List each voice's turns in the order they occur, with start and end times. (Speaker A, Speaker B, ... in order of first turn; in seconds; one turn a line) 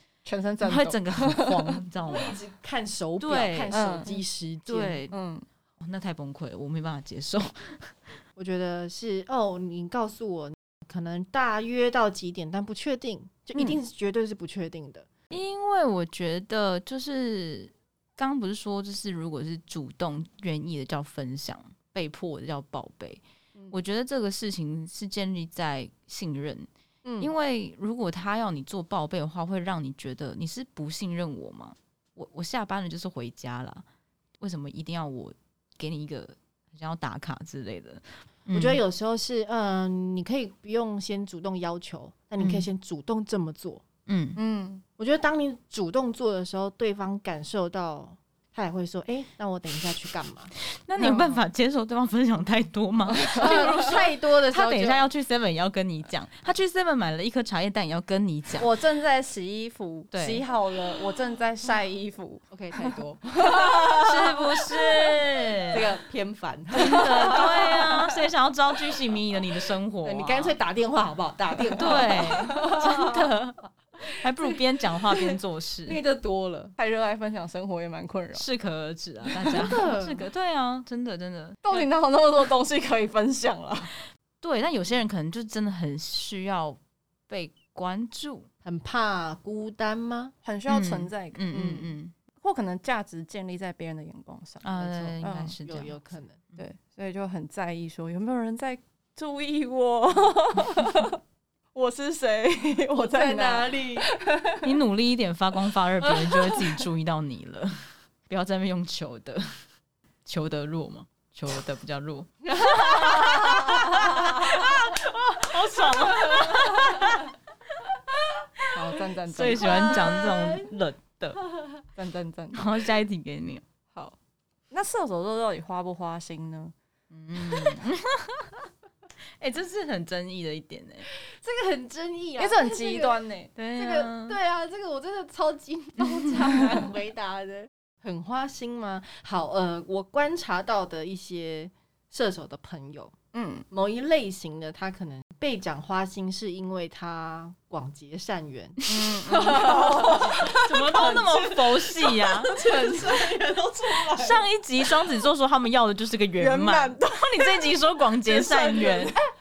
Speaker A: 0.2-1.8
Speaker B: 0.6-2.4
Speaker C: 2.0-5.0
Speaker B: 3.2-3.8
Speaker A: 3.7-4.2
Speaker B: 4.7-5.2
Speaker A: 5.1-5.5
Speaker B: 5.8-8.0
Speaker C: 8.4-15.1
Speaker B: 15.3-26.7
Speaker C: 27.1-27.3
Speaker B: 27.2-33.9
Speaker B: 34.4-38.8
Speaker C: 38.5-43.8
Speaker B: 42.4-42.7
Speaker B: 44.1-44.4
Speaker A: 44.4-44.8
Speaker C: 45.0-50.5
Speaker B: 50.9-58.7
Speaker A: 51.0-51.4
Speaker A: 53.2-53.7
Speaker C: 53.4-55.1
Speaker A: 58.6-64.4
Speaker B: 60.1-60.4
Speaker C: 62.5-64.1
Speaker B: 64.0-65.8
Speaker C: 65.7-68.0
Speaker B: 66.8-70.6
Speaker A: 66.8-67.8
Speaker C: 70.0-73.2
Speaker A: 71.7-72.1
Speaker B: 71.8-76.0
Speaker C: 74.4-76.7
Speaker A: 76.8-78.5
Speaker B: 78.3-81.9
Speaker C: 79.5-80.3
Speaker A: 81.6-83.9
Speaker B: 84.4-88.5
Speaker C: 88.6-90.3
Speaker A: 90.4-94.6
Speaker B: 90.7-92.1
Speaker B: 94.6-96.0
Speaker C: 94.8-96.4
Speaker A: 95.2-95.6
Speaker A: 96.6-101.2
Speaker A: 101.8-104.1
Speaker C: 103.0-104.2
Speaker B: 104.6-109.5
Speaker C: 106.0-106.8
Speaker B: 110.3-117.3
Speaker C: 112.5-115.0
Speaker C: 115.7-117.1
Speaker A: 118.7-120.0
Speaker B: 119.3-121.4
Speaker C: 119.5-120.8
Speaker C: 121.4-121.8
Speaker A: 122.0-122.6
Speaker B: 122.5-123.6
Speaker A: 124.7-126.7
Speaker B: 127.1-128.6
Speaker B: 129.4-131.1
Speaker C: 131.2-133.2
Speaker A: 132.4-133.5
Speaker B: 133.6-134.4
Speaker C: 133.8-143.1
Speaker A: 143.3-143.7
Speaker C: 143.7-151.2
Speaker A: 148.9-154.4
Speaker B: 149.3-152.6
Speaker C: 152.5-154.3
Speaker B: 154.1-159.1
Speaker A: 156.4-159.2